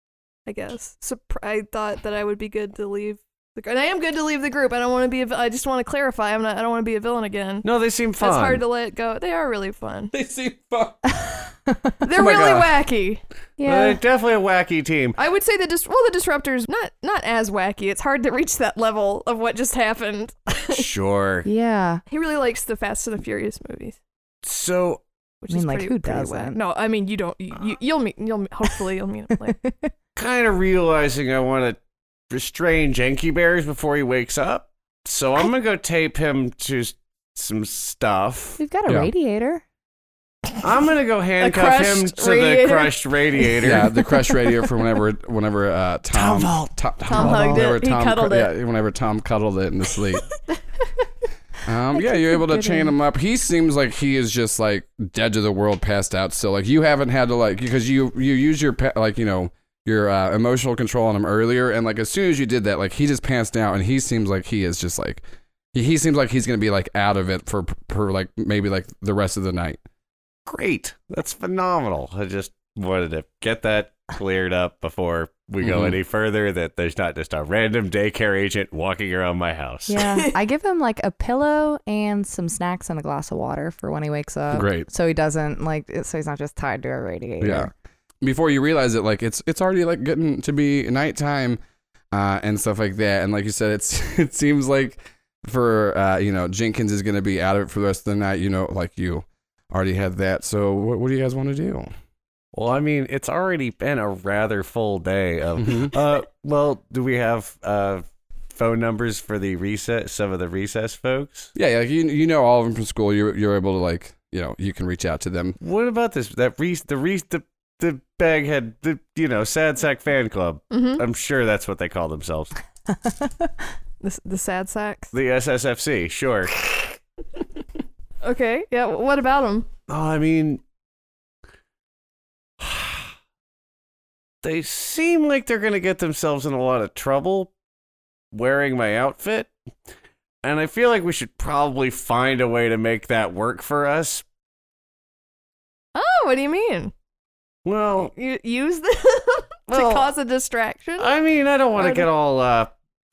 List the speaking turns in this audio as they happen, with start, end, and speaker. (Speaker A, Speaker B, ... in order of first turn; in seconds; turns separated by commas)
Speaker A: 0.5-7.7, Speaker B: 7.6-8.6, Speaker A: 8.2-10.1, Speaker C: 10.1-11.0, Speaker A: 12.0-13.2, Speaker C: 12.1-12.7, Speaker D: 13.6-14.0, Speaker B: 13.6-15.2, Speaker A: 15.2-20.9, Speaker B: 20.7-21.5, Speaker D: 21.4-22.0, Speaker A: 22.1-24.0, Speaker B: 24.4-25.0, Speaker A: 25.4-29.6, Speaker D: 25.5-26.6, Speaker D: 29.6-29.9, Speaker B: 30.1-31.8, Speaker B: 32.3-38.6, Speaker D: 38.6-39.6, Speaker B: 40.6-44.0, Speaker A: 41.4-43.0, Speaker C: 43.6-50.2, Speaker B: 46.1-46.7, Speaker A: 47.1-48.5, Speaker D: 47.1-47.7, Speaker C: 51.6-65.2, Speaker D: 51.9-52.9, Speaker C: 65.7-69.8, Speaker B: 70.5-80.0, Speaker C: 75.6-76.0, Speaker D: 79.9-87.7, Speaker C: 84.5-84.9, Speaker C: 87.4-87.7, Speaker C: 88.2-91.6, Speaker C: 92.1-101.9, Speaker B: 102.5-111.5, Speaker C: 105.6-105.9, Speaker C: 111.5-115.6, Speaker B: 115.6-122.5, Speaker A: 120.7-121.0, Speaker A: 124.0-125.1, Speaker B: 125.1-126.6, Speaker A: 128.2-129.7, Speaker B: 129.9-130.6, Speaker B: 132.6-133.1, Speaker B: 134.4-137.5, Speaker B: 138.3-139.5, Speaker B: 140.4-144.2, Speaker A: 145.9-146.9, Speaker B: 147.6-148.1, Speaker A: 148.0-151.1, Speaker B: 149.7-150.0, Speaker B: 151.0-152.7, Speaker A: 151.8-152.1